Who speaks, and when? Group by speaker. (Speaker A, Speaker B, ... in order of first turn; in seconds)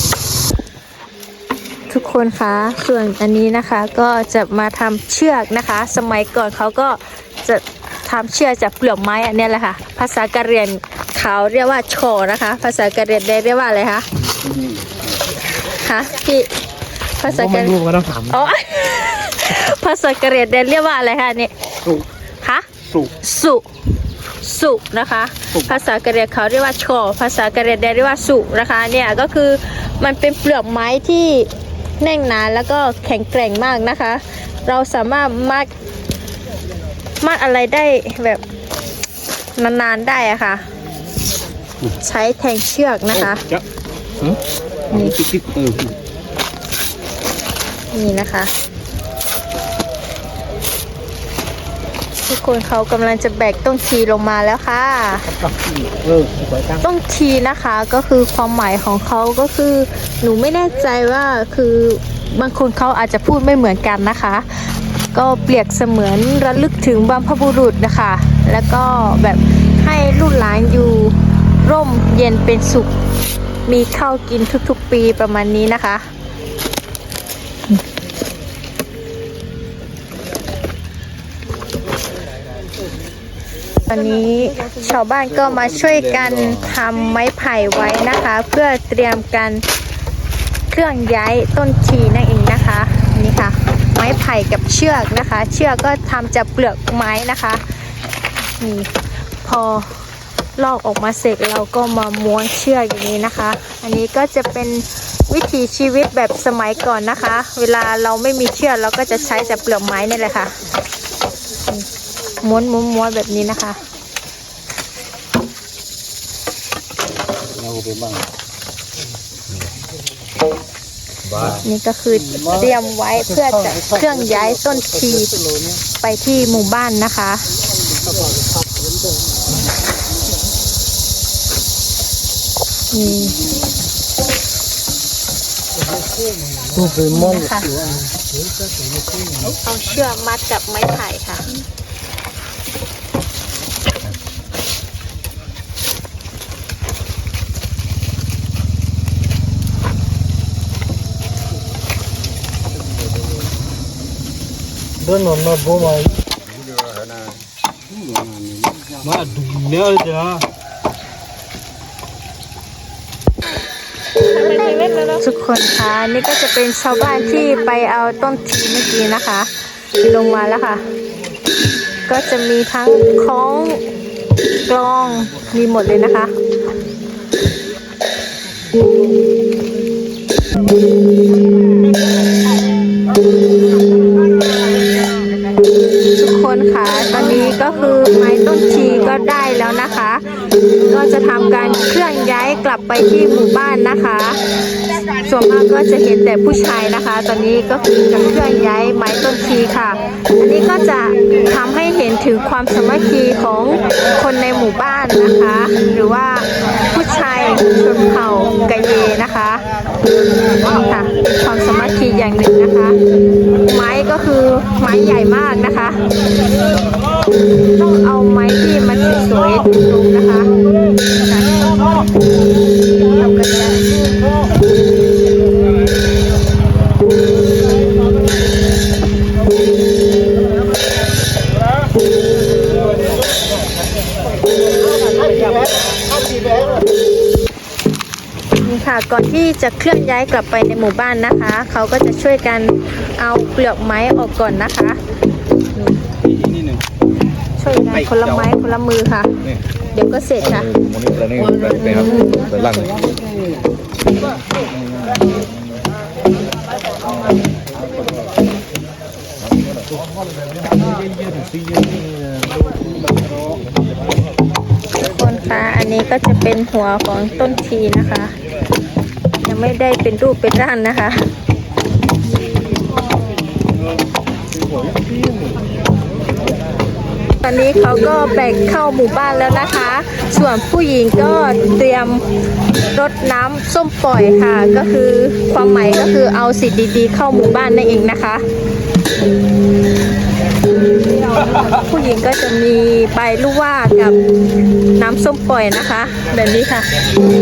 Speaker A: 1.9-14.1, 15.7-16.5, 17.2-21.5, 22.4-23.7, 24.4-35.7, 37.2-38.4, 39.5-40.6, 41.9-43.4, 44.9-45.2, 47.9-48.5, 52.2-55.3, 56.8-72.9, 73.7-76.1, 83.8-89.6, 90.7-97.6, 98.4-98.9, 99.4-100.0, 100.5-110.5, 112.4-113.8, 121.4-127.5, 132.9-133.4, 136.9-137.8, 139.4-141.6, 164.3-170.8, 172.1-173.8, 174.6-176.3, 186.1-190.3, 190.9-194.4, 195.1-209.6, 210.6-213.0, 213.6-216.0, 217.7-220.5, 221.2-221.8, 223.1-223.8, 238.6-245.0, 247.6-249.4, 249.9-250.8, 251.9-252.6, 264.9-268.3, 269.4-271.3, 277.4-282.2, 282.9-288.4, 291.5-294.2, 294.9-296.9
Speaker B: 14.5-14.8, 17.7-18.2, 22.8-23.1, 45.0-45.9, 55.5-56.8, 117.6-118.2, 135.9-139.4, 155.1-156.1, 157.9-160.4, 246.2-246.8, 261.1-262.4
Speaker C: 250.7-253.0